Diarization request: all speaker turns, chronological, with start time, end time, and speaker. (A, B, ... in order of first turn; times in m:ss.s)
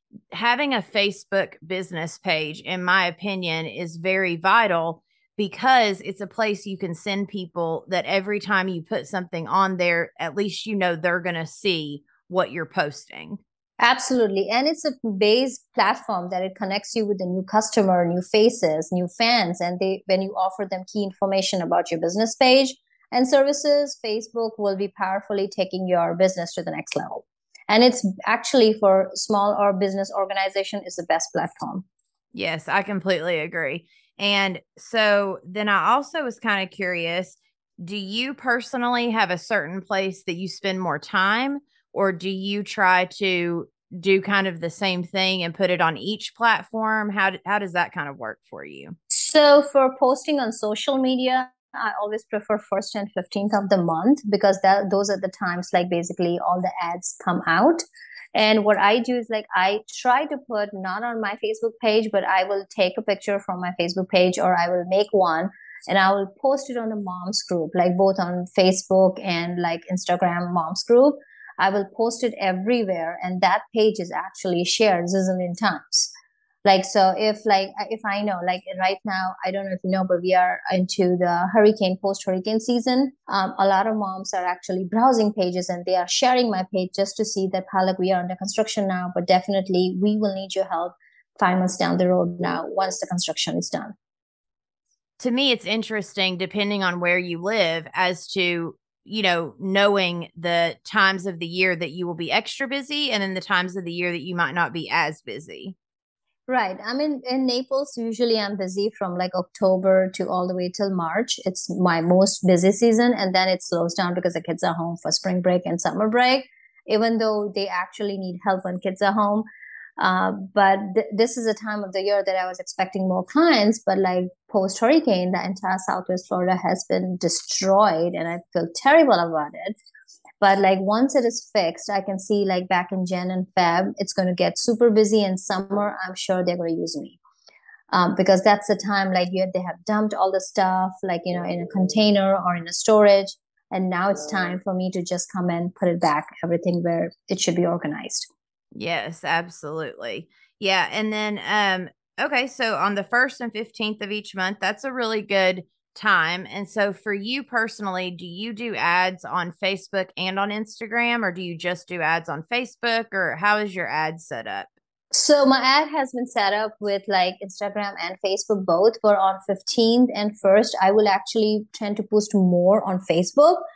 0:00.3-0:13.4 A
0:13.8-0:31.8 B
0:32.3-0:49.0 A
0:49.1-0:57.8 B
0:58.4-1:16.1 B
1:16.6-1:33.9 B
1:35.2-1:45.8 A
1:46.5-1:59.4 B
2:00.0-2:09.8 B
2:10.4-2:17.2 B
2:17.9-2:28.3 B
2:28.8-2:44.7 A
2:45.1-2:53.6 B